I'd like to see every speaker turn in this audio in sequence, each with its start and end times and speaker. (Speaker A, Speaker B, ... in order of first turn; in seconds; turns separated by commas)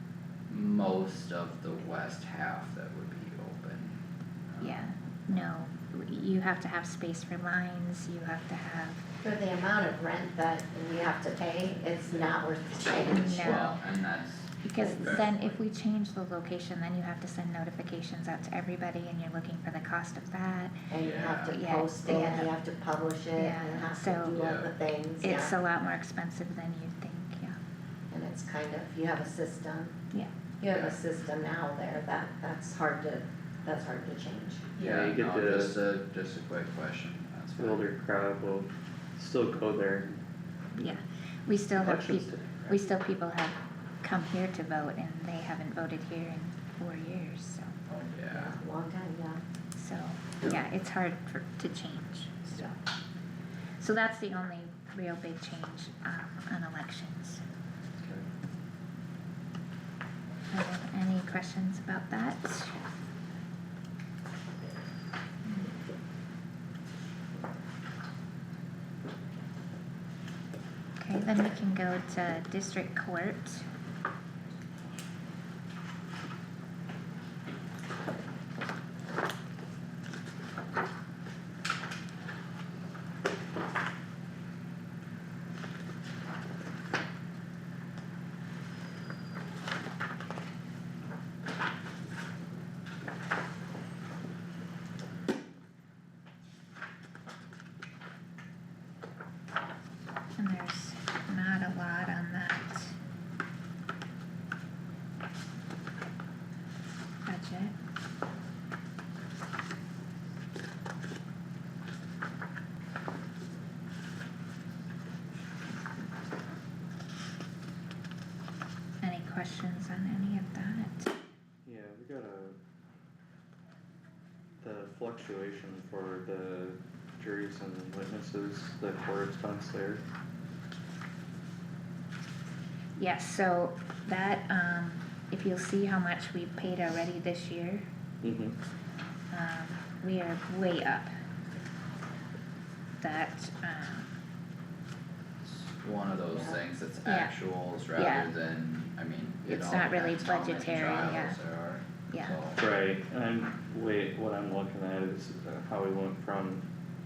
Speaker A: 0.5-4.8, Speaker B: 4.6-9.0, Speaker C: 9.2-13.6, Speaker A: 12.1-12.3, Speaker B: 13.1-13.8, Speaker A: 13.3-15.6, Speaker B: 14.6-20.9, Speaker C: 20.9-25.5, Speaker A: 21.0-21.6, Speaker B: 21.5-22.5, Speaker B: 23.3-24.4, Speaker A: 24.3-24.7, Speaker B: 25.2-27.6, Speaker C: 28.1-29.9, Speaker C: 30.6-34.9, Speaker A: 30.7-31.0, Speaker A: 34.8-37.9, Speaker D: 34.9-35.7, Speaker D: 37.6-40.1, Speaker B: 40.7-47.8, Speaker D: 41.8-42.7, Speaker A: 47.9-48.6, Speaker C: 48.3-49.4, Speaker B: 49.7-52.8, Speaker B: 53.8-57.4, Speaker B: 60.5-62.8, Speaker B: 65.4-65.7, Speaker B: 71.0-73.7, Speaker B: 100.4-103.0, Speaker B: 107.2-107.7, Speaker B: 119.0-121.1, Speaker D: 121.6-122.5, Speaker D: 124.6-130.0, Speaker B: 133.0-137.8, Speaker D: 138.2-138.6, Speaker B: 139.3-141.1, Speaker B: 143.0-144.1, Speaker A: 145.4-152.6, Speaker C: 146.3-146.6, Speaker B: 147.0-147.3, Speaker B: 147.9-148.3, Speaker B: 149.4-151.4, Speaker B: 152.1-152.4, Speaker D: 152.6-156.6